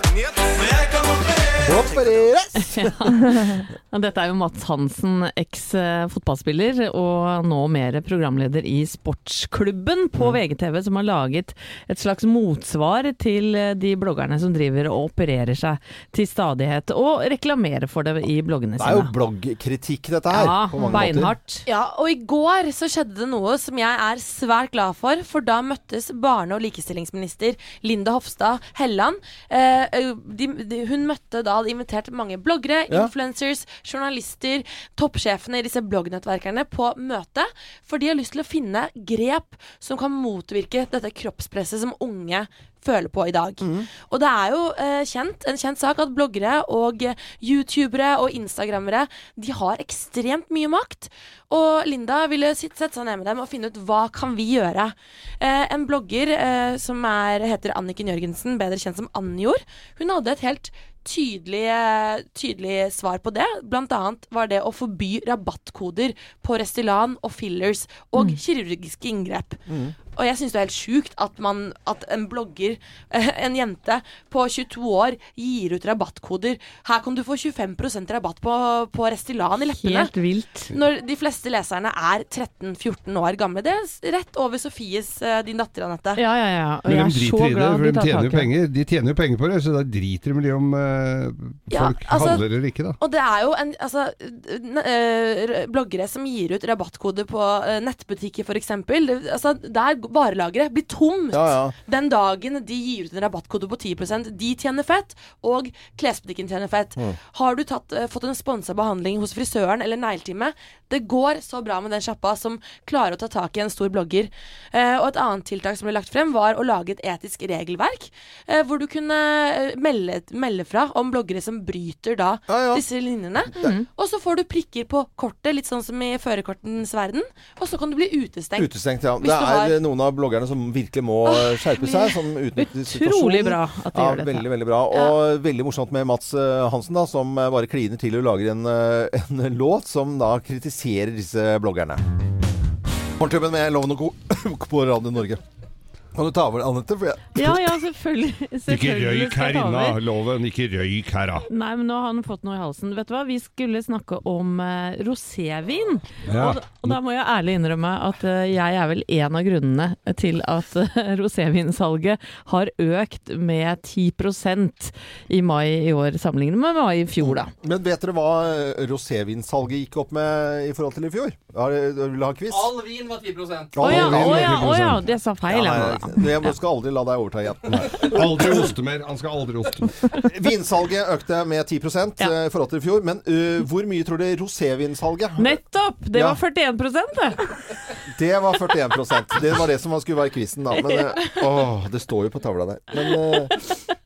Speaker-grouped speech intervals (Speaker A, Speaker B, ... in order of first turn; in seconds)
Speaker A: 1.6-3.1, 18.8-21.3, 43.6-43.9, 69.7-70.0, 101.3-101.8, 122.5-122.8, 128.6-142.0, 143.2-145.4, 146.2-147.6, 167.2-172.9, 173.7-174.8, 175.5-178.7, 180.1-185.6, 186.1-186.4, 188.1-193.7
Speaker B: 2.6-19.1, 20.3-21.6, 79.8-80.7, 86.2-88.5, 123.6-123.9, 132.6-134.4, 147.3-150.0, 151.5-167.5, 173.8-176.5, 185.4-187.9
Speaker C: 21.6-69.6, 70.1-80.1, 80.7-86.2, 91.7-92.5, 93.0-129.8, 131.2-132.2, 134.9-135.2
Speaker D: 86.8-93.0, 148.7-151.5, 156.3-157.0, 173.8-175.1, 177.7-180.1